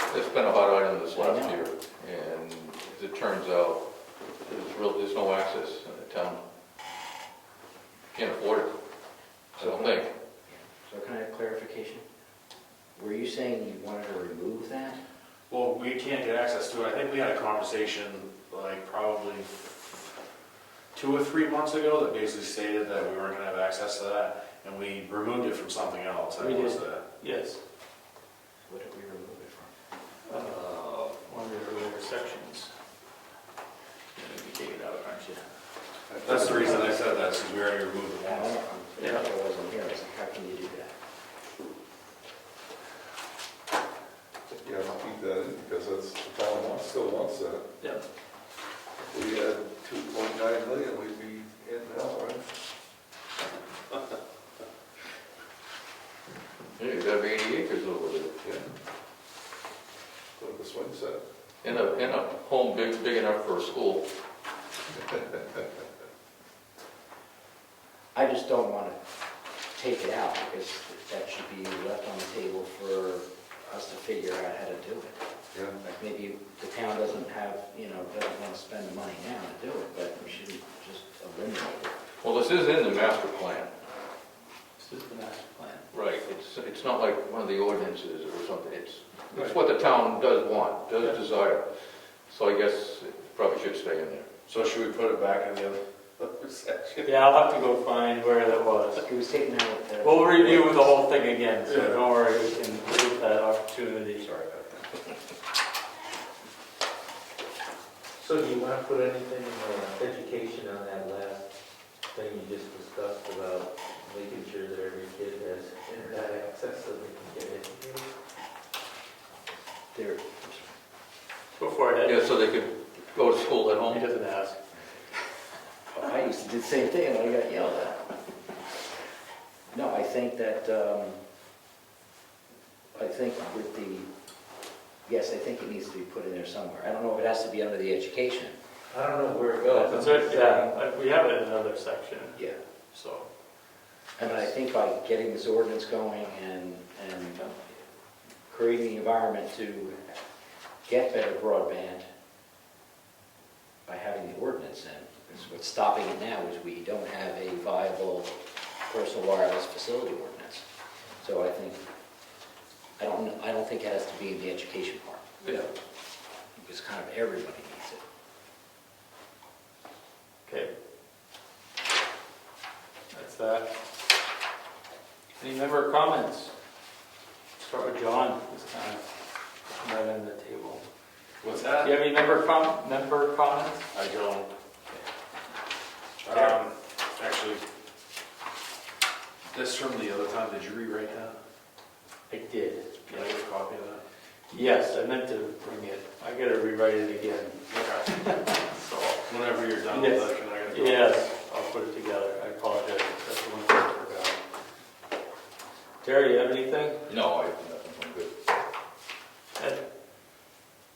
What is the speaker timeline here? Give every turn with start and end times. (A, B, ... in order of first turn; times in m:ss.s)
0:00.1-0:03.8 A
0:01.1-0:01.6 B
0:04.4-0:06.4 A
0:08.1-0:08.7 A
0:09.6-0:10.1 A
0:09.6-0:12.0 B
0:13.0-0:15.0 B
0:15.5-0:20.1 C
0:20.9-0:27.0 C
0:26.4-0:27.6 D
0:28.7-0:29.7 B
0:30.3-0:32.7 D
0:34.2-0:35.5 D
0:36.1-0:36.8 E
0:36.2-0:38.6 C
0:38.2-0:40.9 B
0:39.0-0:39.2 D
0:44.6-0:47.7 E
0:49.0-0:52.5 E
0:56.8-0:58.4 A
0:58.4-0:58.7 E
1:00.4-1:01.2 E
1:01.6-1:04.0 A
1:08.1-1:09.0 B
1:09.7-1:15.2 B
1:15.8-1:22.0 B
1:22.2-1:23.7 A
1:24.8-1:25.8 D
1:25.9-1:31.6 A
1:32.3-1:34.2 A
1:34.5-1:37.1 C
1:37.0-1:39.0 D
1:38.9-1:41.0 B
1:40.0-1:44.2 D
1:44.2-1:44.9 B
1:48.2-1:51.5 F
1:52.1-1:58.1 F
1:59.9-2:00.7 B
2:01.6-2:02.2 D
2:02.0-2:04.1 A
2:03.9-2:04.6 D
2:05.9-2:08.0 B
2:09.7-2:11.2 B
2:13.0-2:14.1 B
2:15.0-2:18.5 B
2:18.9-2:20.7 F
2:19.7-2:23.3 D
2:24.2-2:27.5 B
2:24.2-2:24.5 D
2:28.5-2:30.2 B
2:30.8-2:32.0 B
2:33.8-2:38.3 B
2:38.9-2:40.6 B
2:41.2-2:41.8 B
2:43.0-2:45.4 B
2:46.6-2:48.0 B
2:50.4-2:50.7 D
2:53.1-2:53.7 D
2:55.4-2:56.5 D
2:57.6-2:59.0 D
2:59.7-3:00.8 D
3:01.4-3:02.0 C
3:01.8-3:03.8 D
3:03.9-3:04.5 C
3:06.2-3:07.6 C
3:09.5-3:11.4 C
3:12.3-3:13.2 D
3:13.1-3:14.0 C
3:14.5-3:19.3 D
3:17.7-3:18.1 C
3:19.3-3:21.2 C
3:19.9-3:24.4 D
3:26.0-3:27.0 D
3:27.1-3:28.3 A
3:29.6-3:29.8 D